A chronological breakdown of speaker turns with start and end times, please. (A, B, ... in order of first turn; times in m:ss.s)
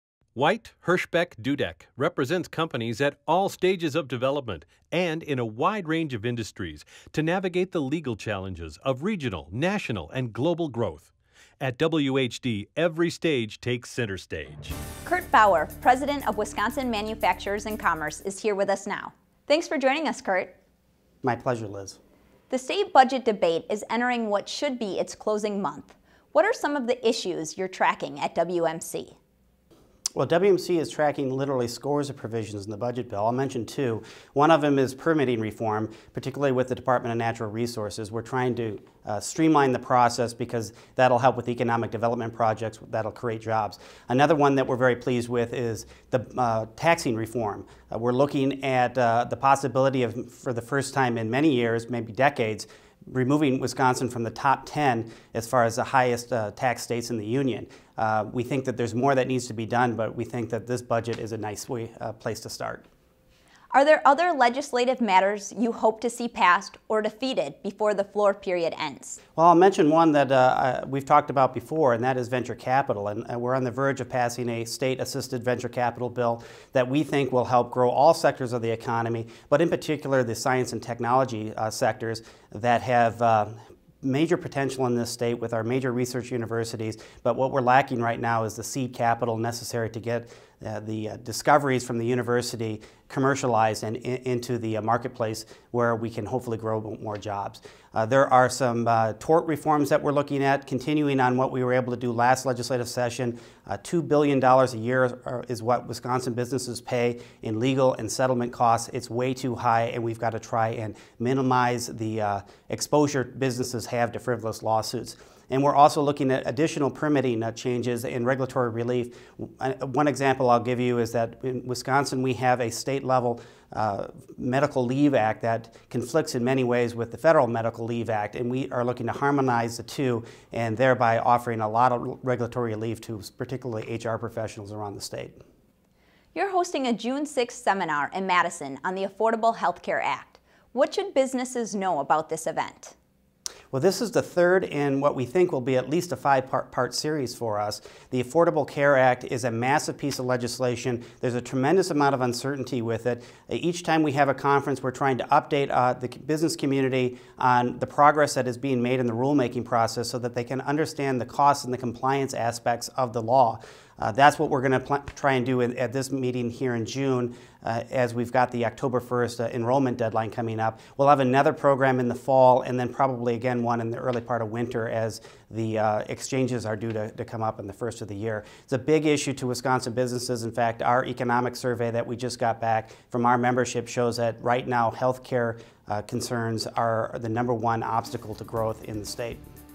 0:00.4-0:14.8 A
0:15.0-0:20.6 B
0:21.2-0:22.0 C
0:22.5-0:29.2 B
0:30.2-1:02.9 C
1:03.7-1:09.2 B
1:09.4-2:15.4 C
2:16.4-2:23.0 B
2:23.7-3:09.4 C